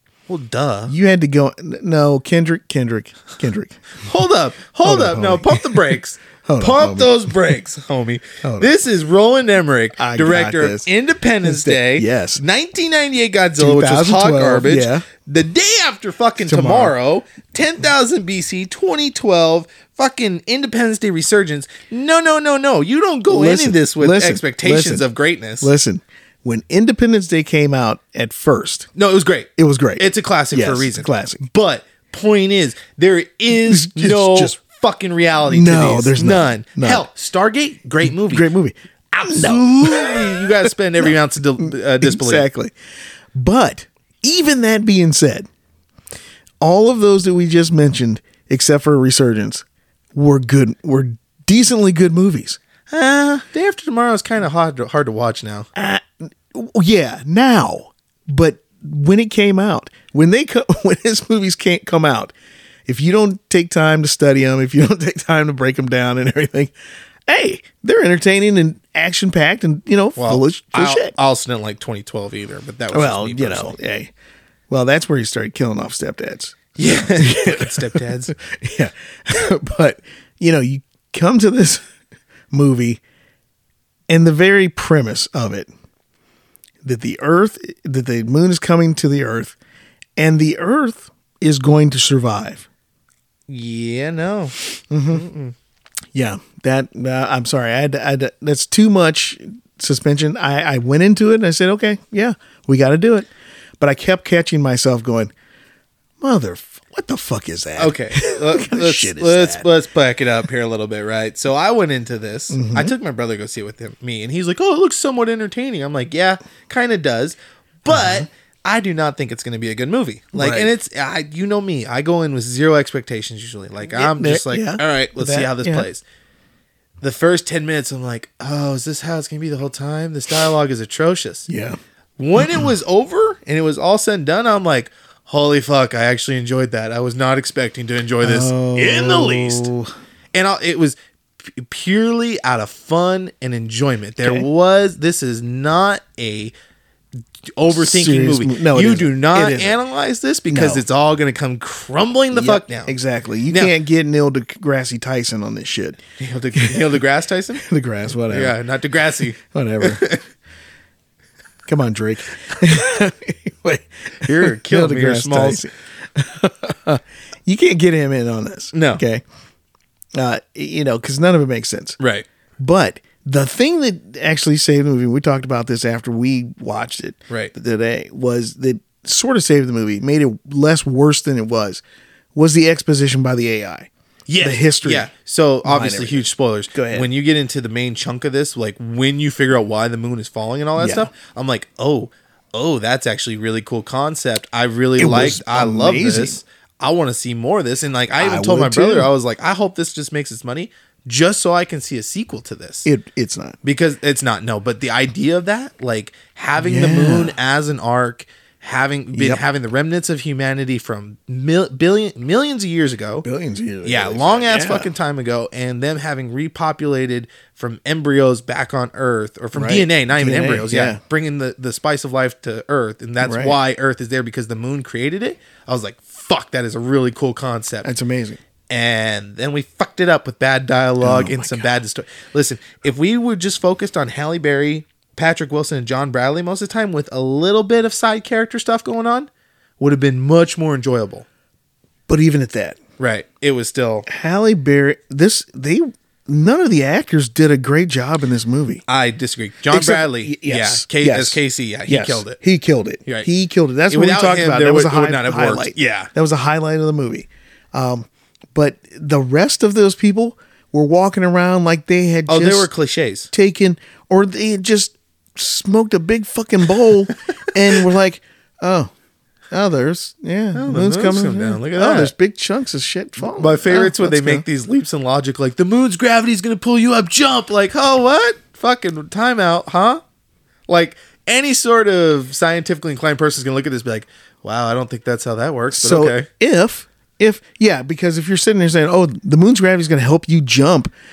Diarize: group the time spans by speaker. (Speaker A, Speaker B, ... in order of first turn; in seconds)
Speaker A: 0.3-0.9, 4.0-25.7, 28.9-38.5, 39.1-42.5, 52.9-55.7, 70.2-73.7, 76.8-78.3, 93.5-95.5, 107.8-126.0, 127.0-131.5, 132.2-139.7, 140.3-146.5, 147.5-152.9, 156.2-157.6, 158.3-160.2, 164.2-165.6, 168.7-169.0, 172.0-172.2, 184.3-202.9, 203.6-213.2, 213.8-227.9, 228.7-241.2, 243.0-244.1, 248.9-252.4, 253.9-256.1, 262.3-263.3, 270.5-272.1, 273.2-280.0, 280.7-286.3
Speaker B: 0.9-3.9, 4.8-7.3, 8.4-8.7, 10.0-10.9, 11.4-12.4, 13.6-15.1, 16.4-16.9, 23.3-25.1, 25.6-28.9, 29.6-31.4, 33.5-34.6, 35.5-37.0, 38.0-42.7, 43.3-45.5, 46.6-52.6, 55.7-62.3, 62.9-66.7, 67.3-71.1, 72.9-74.1, 74.7-81.8, 82.5-83.0, 84.1-85.7, 86.8-89.5, 90.2-92.7, 94.9-95.2, 96.1-105.3, 106.2-109.7, 112.5-112.9, 117.9-118.2, 120.3-120.7, 123.9-125.9, 131.5-131.8, 132.4-132.7, 138.2-139.9, 144.2-144.5, 147.7-149.8, 150.5-150.8, 152.3-156.0, 156.5-156.9, 157.6-158.6, 159.4-160.1, 161.7-169.2, 170.1-172.0, 172.6-181.8, 182.3-185.1, 185.6-187.1, 190.8-191.1, 195.0-196.4, 198.2-199.1, 202.8-203.6, 206.6-207.3, 209.1-209.4, 213.2-214.9, 219.5-221.0, 223.2-223.6, 227.8-228.4, 231.0-231.7, 242.1-242.8, 244.1-248.8, 249.7-262.7, 263.3-268.9, 269.5-274.4, 285.7-290.9